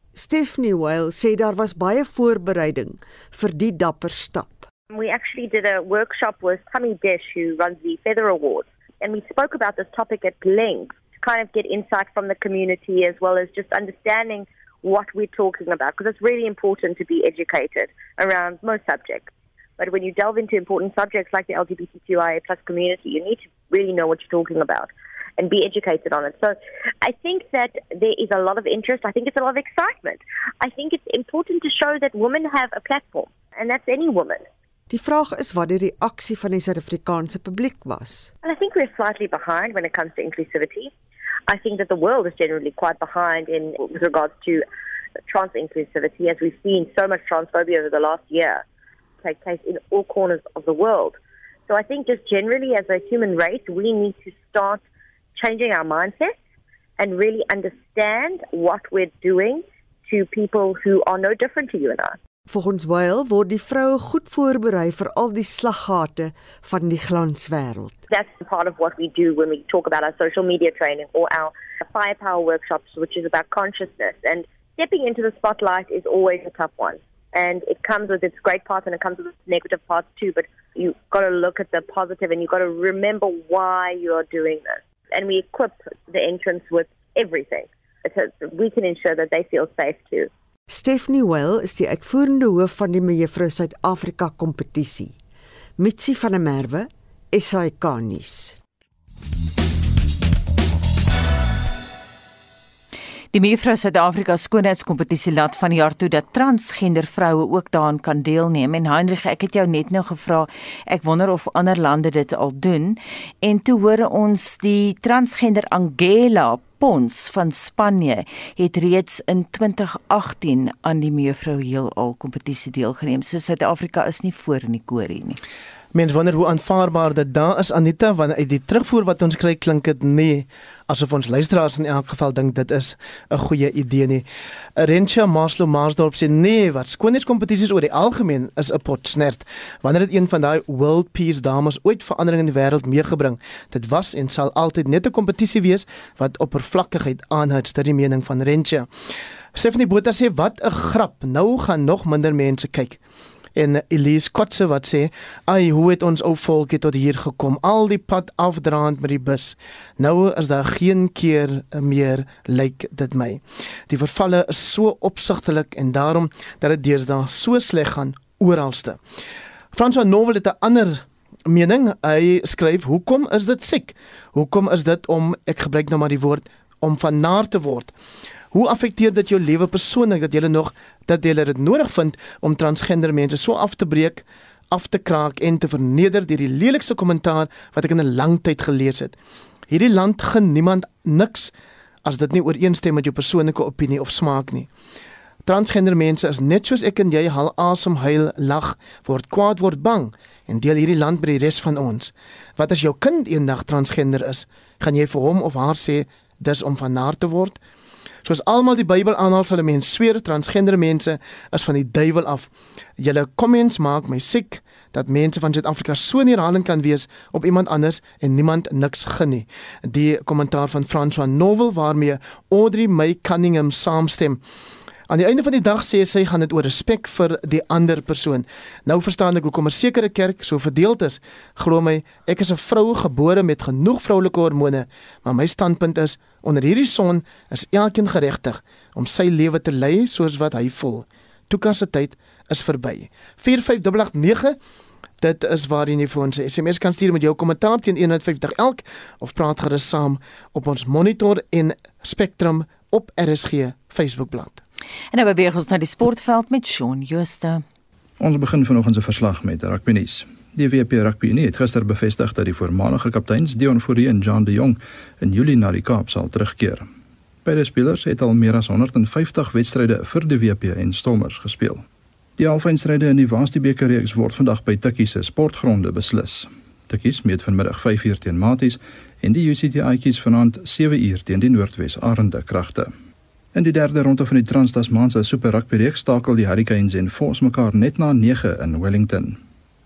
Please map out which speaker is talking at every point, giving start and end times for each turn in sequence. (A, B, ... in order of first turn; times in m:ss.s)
0:00.1-0:04.7 A
0:04.9-0:34.4 B
0:34.9-0:38.3 A
0:38.4-0:40.9 B
0:41.5-0:44.6 B
0:45.3-0:48.6 B
0:49.2-0:54.8 B
0:55.4-0:56.3 B
0:57.0-1:02.2 B
1:02.5-1:08.0 A
1:08.1-1:30.3 B
1:30.7-1:35.2 A
1:35.8-1:38.6 A
1:43.3-2:05.4 C
2:05.9-2:28.9 D
2:29.5-2:33.0 D
2:33.6-2:49.0 D
2:49.7-2:57.9 D
2:58.5-3:09.2 D
3:09.7-3:11.5 D
3:12.0-3:14.7 D
3:15.4-3:27.6 D
3:28.2-3:44.4 D
3:45.1-4:04.6 D
4:05.2-4:14.6 D
4:15.1-4:17.6 C
4:18.2-4:26.9 E
4:27.4-4:31.8 E
4:32.4-4:42.9 E
4:43.5-4:49.4 E